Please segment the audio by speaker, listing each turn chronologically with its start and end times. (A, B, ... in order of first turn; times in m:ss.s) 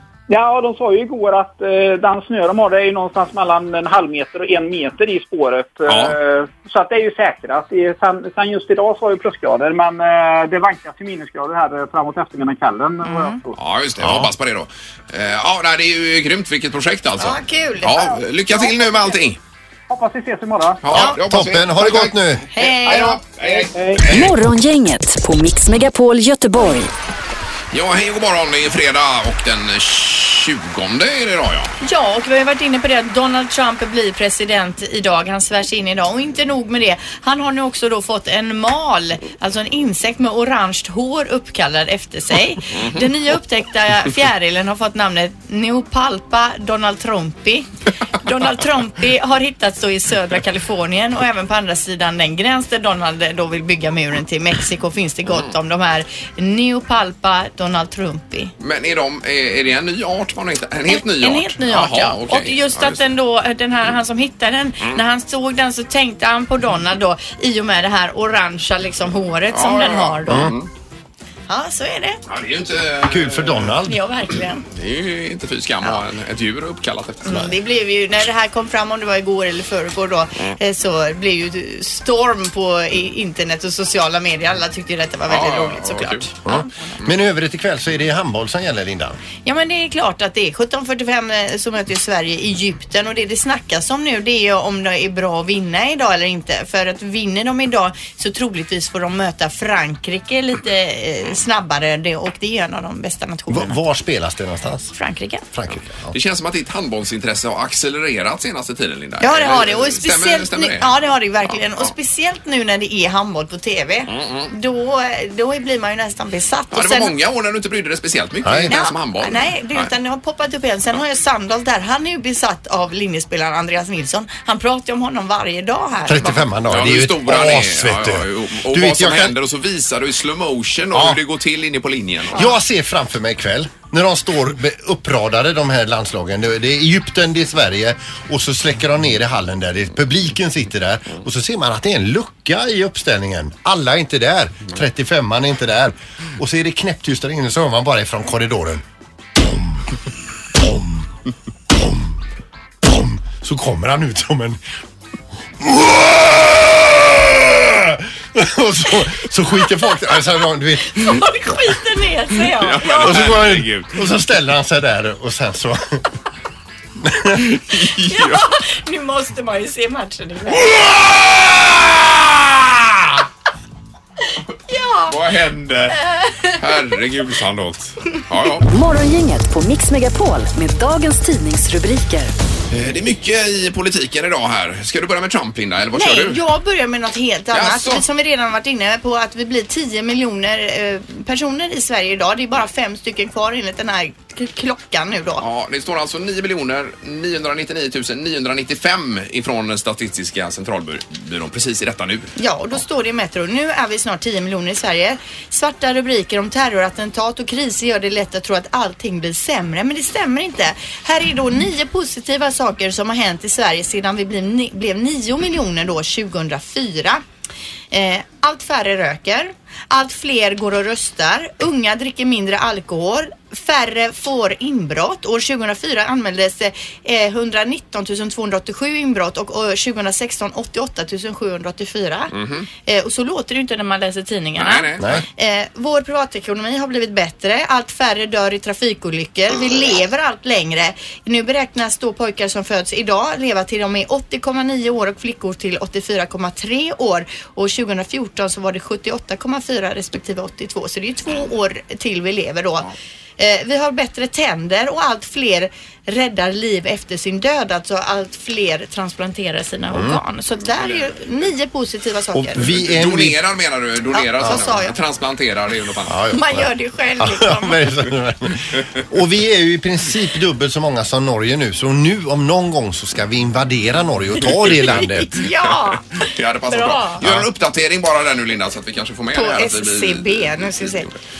0:00.3-0:13.6 A
0:05.8-0:06.2 B
0:13.0-0:13.4 C
0:13.6-0:19.4 B
0:17.2-0:18.2 C
0:19.9-0:20.8 A
0:20.8-0:24.2 B
0:20.9-0:22.4 D
0:22.5-0:23.2 C
0:22.9-0:24.1 A
0:24.1-0:26.9 E
0:27.7-0:31.7 B
0:31.8-0:58.5 C
0:58.6-1:03.0 B
1:00.9-1:10.5 C
1:09.5-1:10.7 B
1:10.3-1:10.5 D
1:11.5-1:12.2 C
1:12.3-1:13.8 B
1:13.0-1:14.0 D
1:13.8-1:14.6 C
1:14.7-1:17.4 B
1:17.2-1:26.9 C
1:25.3-1:26.3 B
1:26.4-1:29.2 D
1:29.4-1:43.8 C
1:43.5-1:44.9 D
1:44.9-1:45.4 C
1:45.5-1:46.1 D
1:46.1-1:50.9 B
1:49.2-1:57.1 C
1:51.5-1:51.9 B
1:54.1-1:54.5 B
1:56.7-1:59.9 B
1:58.4-1:58.7 D
1:58.7-2:06.4 C
2:06.1-2:09.3 D
2:06.2-2:12.4 B
2:10.9-2:11.2 D
2:12.3-2:28.8 D
2:29.4-2:29.8 D
2:30.6-2:31.1 D
2:31.7-2:32.2 D
2:32.8-2:34.6 D
2:35.6-2:41.2 D
2:40.8-2:43.3 C
2:42.5-2:44.0 B
2:43.0-2:46.0 D
2:47.0-2:47.5 D
2:47.5-2:48.4 B
2:48.0-2:50.6 C
2:50.5-2:53.2 B
2:54.7-2:55.2 C
2:55.1-2:56.0 B
2:56.0-2:56.6 C
2:56.6-2:58.7 B
2:58.7-3:02.3 E
3:02.7-3:06.4 B
3:05.9-3:15.4 C
3:07.5-3:08.0 B
3:15.4-3:22.3 B
3:22.4-3:37.2 C
3:37.9-4:22.8 C
3:52.3-3:52.7 B
3:54.6-3:55.2 B
3:55.0-3:55.2 D
4:19.9-4:20.2 D
4:20.8-4:21.1 B
4:22.3-4:23.4 D
4:22.7-4:26.2 B
4:24.1-4:25.0 C
4:26.1-4:35.4 D
4:26.3-4:28.0 C
4:34.7-4:35.0 B
4:34.8-4:37.2 C
4:36.2-4:41.2 B
4:39.3-4:41.1 C